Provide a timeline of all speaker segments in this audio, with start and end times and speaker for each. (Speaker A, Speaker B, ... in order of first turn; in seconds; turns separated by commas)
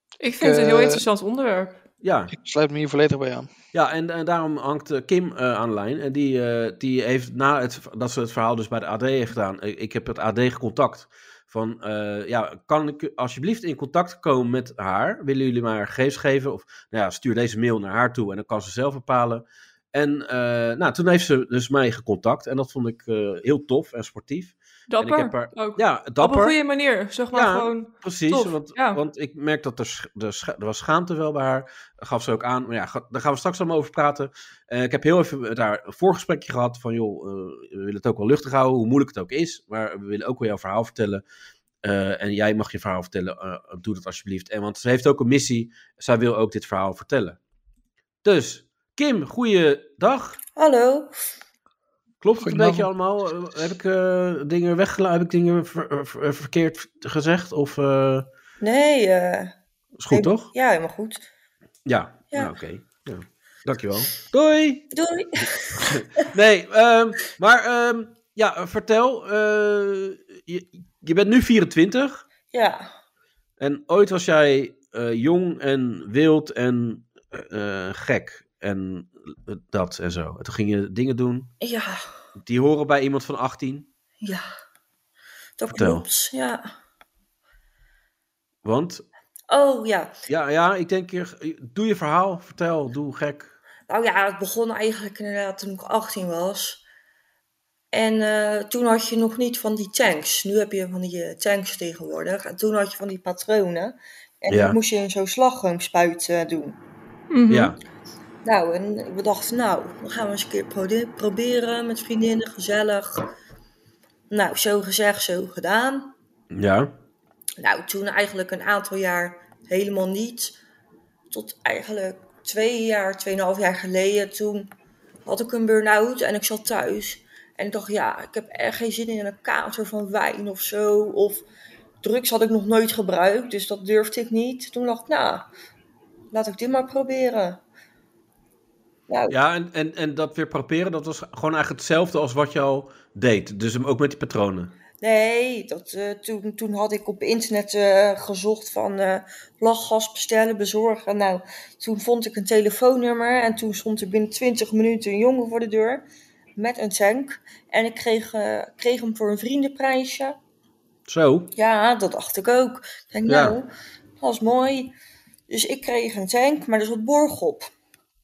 Speaker A: 0.2-1.8, Speaker B: 0.4-1.0, Speaker C: 2.0-2.3, Speaker B: 2.3-3.5, Speaker C: 3.7-26.6, Speaker A: 24.9-29.0, Speaker C: 27.3-41.2, Speaker C: 41.8-47.4, Speaker C: 48.2-50.4, Speaker D: 50.5-51.1, Speaker C: 52.2-58.3, Speaker B: 52.4-52.9, Speaker D: 58.6-59.5, Speaker C: 60.0-60.5, Speaker D: 60.1-61.2, Speaker C: 61.9-64.9, Speaker D: 64.9-66.0, Speaker C: 65.8-72.2, Speaker D: 72.5-72.9, Speaker C: 73.6-81.5, Speaker D: 81.6-82.0, Speaker C: 82.4-83.9, Speaker D: 85.6-86.6, Speaker C: 85.7-86.0, Speaker C: 88.6-89.0, Speaker D: 89.5-90.1, Speaker C: 90.3-93.5, Speaker D: 93.9-96.8, Speaker D: 97.9-106.8, Speaker C: 104.5-104.8, Speaker A: 107.3-107.7, Speaker C: 107.5-107.8, Speaker D: 108.4-113.3, Speaker D: 114.3-116.1, Speaker C: 116.5-116.9, Speaker D: 117.6-120.6, Speaker D: 121.3-124.7, Speaker D: 125.2-131.4, Speaker D: 132.0-135.5, Speaker D: 136.3-137.6, Speaker D: 139.1-139.4, Speaker C: 139.3-144.7, Speaker D: 145.0-156.0, Speaker D: 156.6-160.4, Speaker C: 161.1-161.5, Speaker D: 161.5-164.9, Speaker C: 163.3-163.6, Speaker D: 165.5-167.7